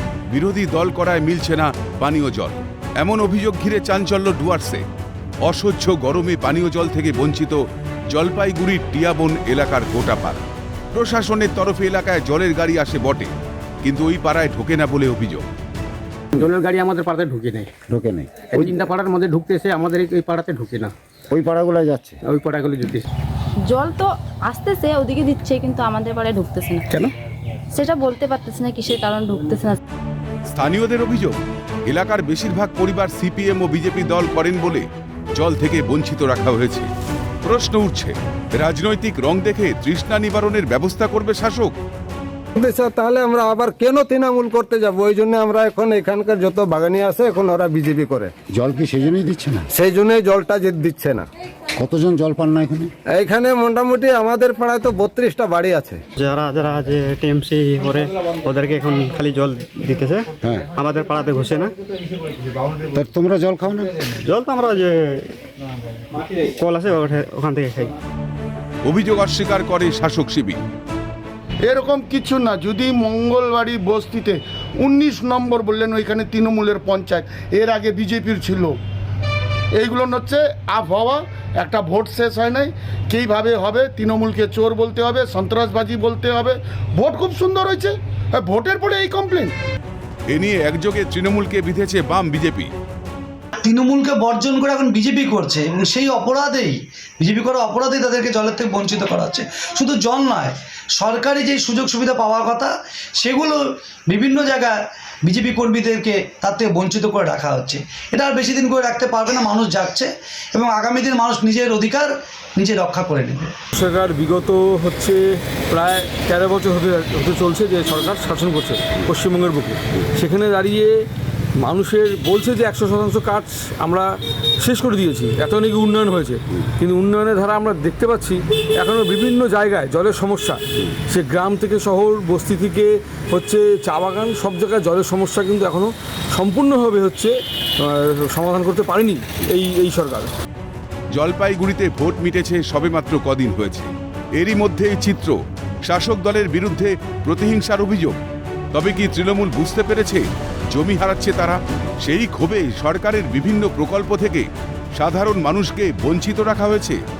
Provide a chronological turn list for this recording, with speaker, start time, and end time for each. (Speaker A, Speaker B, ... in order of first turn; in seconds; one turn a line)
Speaker A: 0.3-4.8
Speaker A: 5.5-7.6
Speaker A: 8.1-13.3
Speaker A: 13.8-15.4
Speaker B: 16.4-17.7
Speaker C: 17.9-18.8
Speaker B: 18.7-20.9
Speaker C: 21.3-22.2
Speaker B: 22.3-23.0
Speaker D: 23.6-27.1
Speaker D: 27.7-29.8
Speaker A: 30.5-36.9
Speaker A: 37.4-41.8
Speaker E: 42.6-48.3
Speaker C: 48.5-49.7
Speaker E: 49.7-51.2
Speaker C: 51.8-52.9
Speaker E: 53.1-56.0
Speaker F: 56.2-61.7
Speaker C: 62.8-64.0
Speaker F: 64.2-65.3
Speaker F: 66.6-67.9
Speaker A: 68.8-70.6
Speaker G: 71.7-78.8
Speaker G: 79.8-89.5
Speaker A: 90.3-92.7
Speaker H: 93.6-113.5
Speaker I: 113.7-121.0
Speaker I: 121.6-140.3
Speaker A: 141.2-145.3
Speaker A: 145.9-148.2
Speaker A: 148.7-150.2
Speaker A: 150.8-157.0